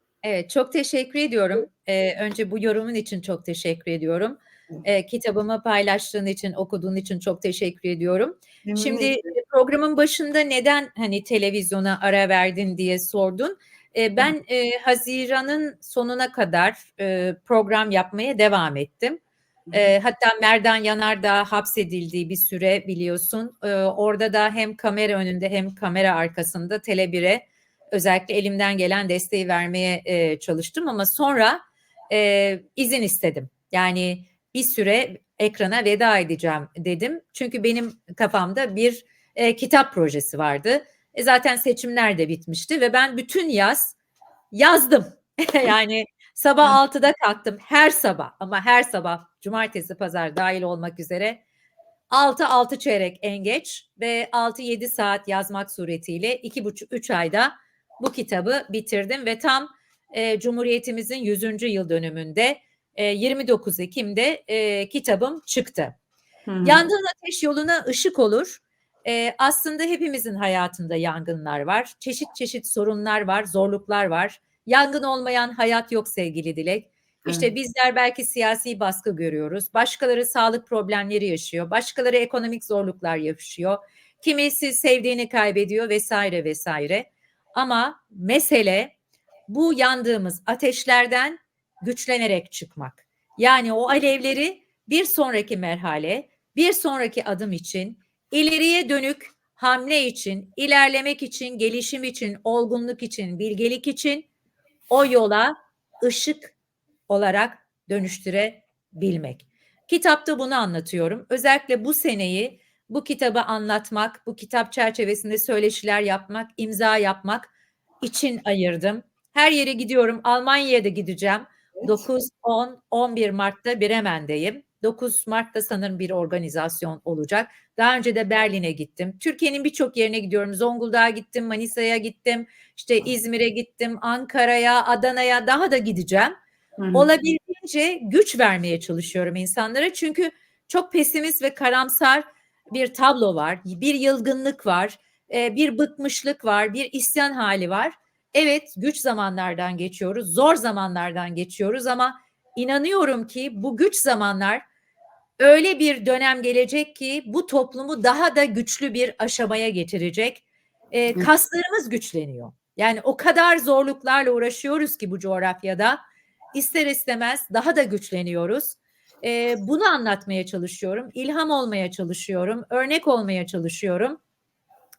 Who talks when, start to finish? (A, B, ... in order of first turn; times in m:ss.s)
0:00.2-0:19.2 A
0:08.6-0:09.2 B
0:19.7-0:19.9 B
0:19.7-0:43.9 A
0:44.5-0:51.4 A
0:52.1-1:05.9 A
1:06.5-1:06.8 B
1:06.6-1:28.9 A
1:17.2-1:17.5 B
1:29.5-1:44.3 A
1:44.9-1:46.5 A
1:47.1-1:57.5 A
1:58.0-2:16.3 A
2:01.8-2:02.0 B
2:16.8-2:17.1 B
2:16.9-2:34.6 A
2:35.4-2:46.0 A
2:46.5-2:54.2 A